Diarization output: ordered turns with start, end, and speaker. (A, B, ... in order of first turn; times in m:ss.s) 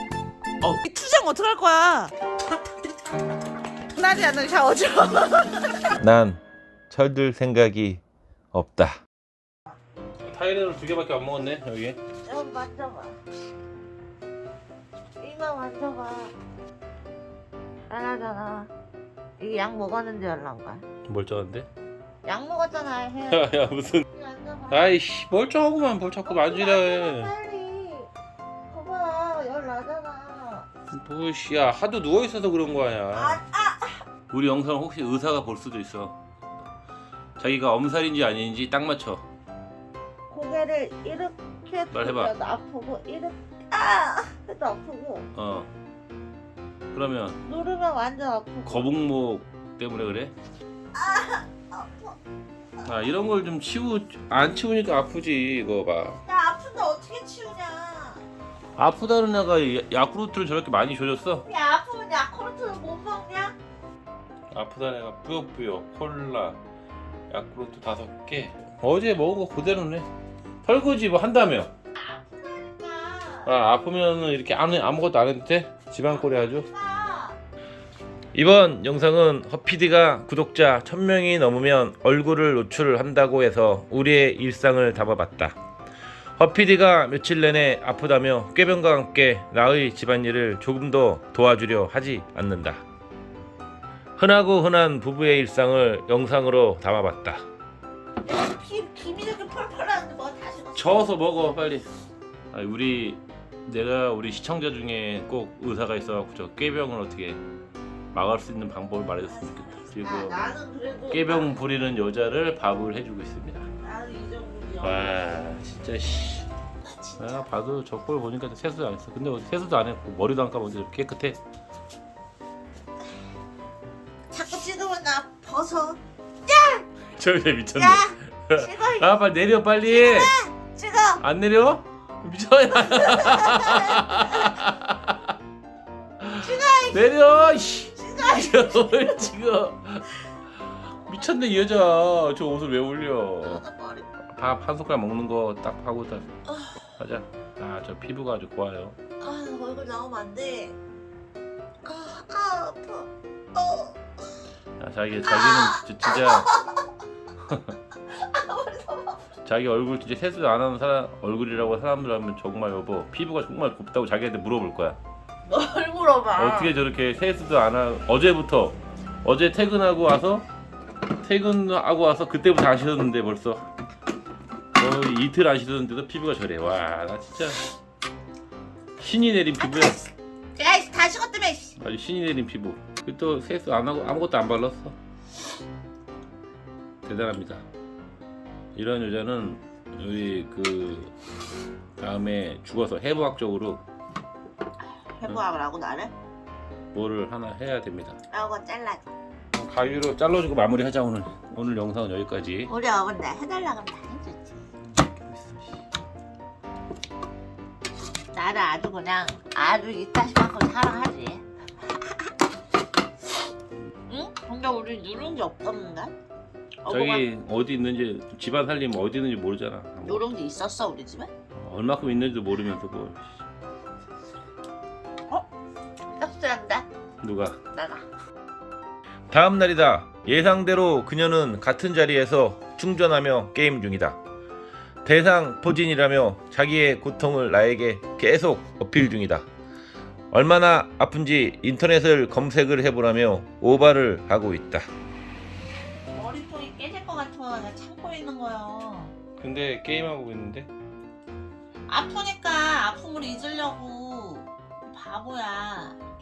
0:00.6-0:02.1 A
0:03.9-0:06.0 A
0:06.0-0:09.0 B
0:10.2-0:12.0 B
0:12.2-0:13.2 A
0:15.2-0:16.3 A
0:17.9-0:18.7 A
0:19.4-0:20.8 A
0:21.0-0:21.7 B
0:22.2-0:23.5 A
0:23.3-0:24.0 B
0:24.1-0:25.0 A
0:24.7-0:27.3 B
0:26.2-0:28.1 A
0:28.7-0:30.7 A
0:30.9-0:33.4 B
0:33.1-0:34.0 A
0:34.3-0:36.2 B
0:37.4-0:39.2 B
0:40.3-0:45.3 A
0:41.9-0:42.3 B
0:45.4-0:45.7 B
0:46.9-0:47.4 B
0:47.4-0:48.9 A
0:48.6-0:50.3 B
0:50.9-0:52.2 A
0:52.8-0:56.2 B
0:56.2-0:58.2 A
0:58.8-1:01.4 B
1:01.5-1:03.5 A
1:04.5-1:06.6 B
1:07.3-1:10.1 B
1:10.6-1:11.7 B
1:12.0-1:13.5 A
1:13.4-1:16.7 B
1:16.2-1:17.4 A
1:18.3-1:25.6 B
1:26.4-1:32.8 B
1:34.2-1:37.4 B
1:38.2-1:41.1 A
1:40.7-1:41.9 B
1:42.5-1:47.4 B
1:48.1-1:50.4 B
1:49.2-1:51.5 A
1:51.1-1:53.7 B
1:53.8-1:55.2 A
1:54.8-1:56.5 B
1:56.8-1:57.5 A
1:57.2-2:01.4 B
2:04.3-2:06.8 A
2:07.1-2:10.3 B
2:07.7-2:09.1 A
2:09.8-2:11.2 A
2:11.2-2:15.3 B
2:12.8-2:14.5 A
2:16.2-2:20.1 B
2:16.3-2:19.3 A
2:20.9-2:23.6 B
2:23.4-2:24.1 A
2:24.3-2:26.4 B
2:27.0-2:29.0 B
2:29.2-2:30.8 A
2:31.8-2:34.0 A
2:34.8-2:36.5 B
2:35.2-2:36.7 A
2:37.4-2:37.8 B
2:38.2-2:39.2 A
2:39.4-2:45.0 B
2:45.4-2:46.7 A
2:46.3-2:50.4 B
2:51.2-2:53.7 B
2:54.7-2:57.6 B
2:59.0-3:00.0 B
2:59.6-3:00.0 A
3:00.6-3:01.7 A
3:01.8-3:04.9 B
3:07.0-3:07.6 B
3:08.7-3:11.1 B
3:12.0-3:13.8 B
3:15.1-3:16.1 A
3:16.9-3:18.2 B
3:18.3-3:19.1 A
3:19.5-3:22.7 B
3:22.6-3:24.7 A
3:24.9-3:25.8 B
3:28.3-3:31.4 A
3:34.1-3:36.1 A
3:36.8-3:37.2 A
3:36.9-3:40.3 B
3:40.0-3:41.3 A
3:41.5-3:43.3 B
3:46.2-3:46.8 A
3:47.2-3:47.6 B
3:47.7-3:48.0 A
3:49.3-3:54.2 B
3:55.0-3:59.5 B
4:00.3-4:04.9 B
4:06.1-4:09.1 A
4:09.4-4:10.7 B
4:11.9-4:16.0 A